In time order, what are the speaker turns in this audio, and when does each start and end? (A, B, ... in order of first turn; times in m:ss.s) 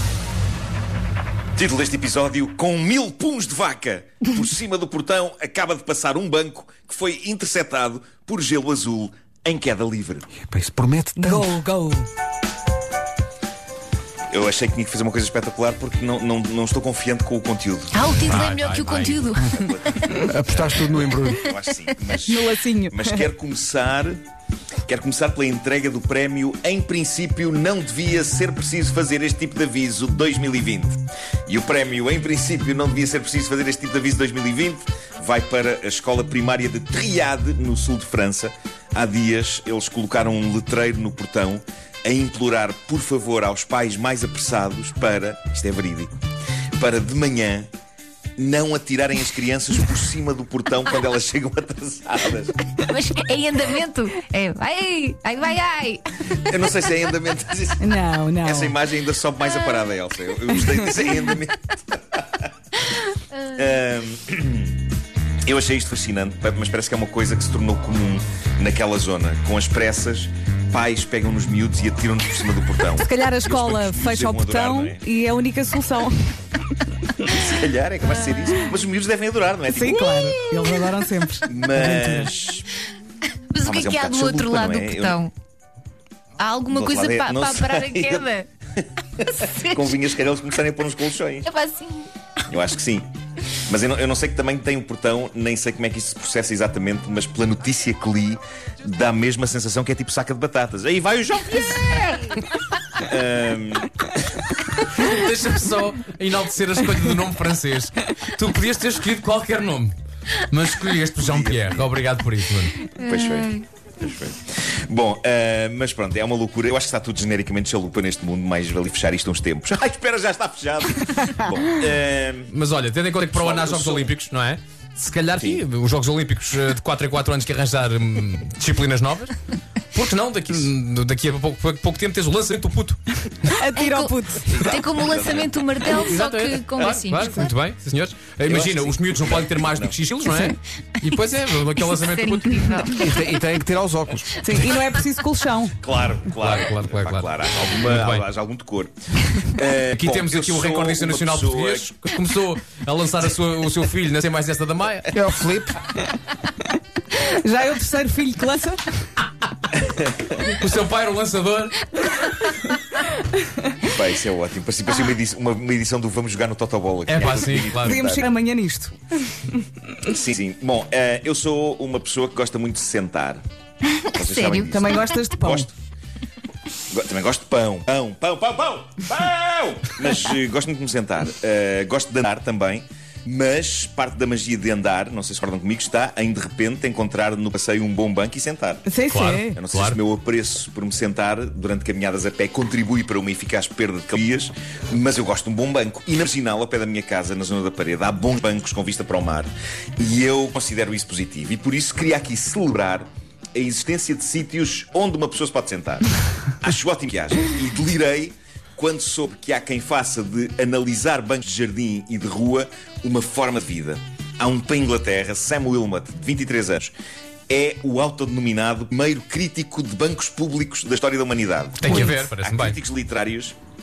0:01.6-0:10.3 A
0:10.4-0:11.6 B
0:11.2-0:12.1 C
0:14.3-0:18.0 A
0:17.9-0:20.2 D
0:18.1-0:19.2 E
0:19.1-0:24.2 A
0:20.3-0:21.5 B
0:22.2-0:23.3 C
0:24.9-0:46.1 A
0:46.8-0:47.7 A
0:48.4-0:52.7 A
0:52.8-0:56.4 D
0:56.4-0:57.8 A
0:57.8-0:58.8 C
0:58.4-1:02.5 A
1:00.5-1:01.2 C
1:03.5-1:04.8 A
1:05.4-1:15.0 A
1:12.9-1:16.4 C
1:17.2-1:20.6 A
1:19.7-1:22.3 C
1:21.4-1:22.7 A
1:23.5-1:25.3 D
1:23.6-1:25.2 A
1:26.4-1:28.5 D
1:26.7-1:31.5 A
1:29.3-1:30.0 D
1:31.4-1:32.1 D
1:32.5-1:33.1 A
1:33.6-1:42.3 A
1:42.9-1:43.9 A
1:45.0-1:52.8 E
1:51.2-1:52.0 A
1:52.9-2:02.5 A
1:53.0-1:53.6 D
2:02.5-2:09.4 E
2:03.3-2:04.1 A
2:05.4-2:05.6 A
2:09.9-2:13.2 E
2:13.4-2:14.7 C
2:13.7-2:17.5 D
2:14.5-2:15.6 A
2:15.8-2:23.1 E
2:16.7-2:17.0 A
2:18.4-2:20.0 A
2:20.2-2:20.5 B
2:22.0-2:23.2 D
2:23.0-2:24.4 B
2:24.3-2:25.7 C
2:25.8-2:32.0 A
2:26.3-2:28.2 E
2:29.8-2:35.1 E
2:35.1-2:35.8 B
2:37.1-2:38.8 C
2:40.4-2:41.9 E
2:43.8-2:48.2 A
2:47.1-2:48.1 E
2:47.8-2:49.4 C
2:50.0-2:53.4 A
2:53.9-2:55.2 D
2:54.1-2:55.7 A
2:54.6-2:55.7 C
2:56.9-3:08.8 A
3:08.8-3:09.6 C
3:09.1-3:10.0 E
3:09.5-3:26.0 A
3:26.6-3:36.9 A
3:37.5-3:43.5 A
3:41.8-3:42.8 E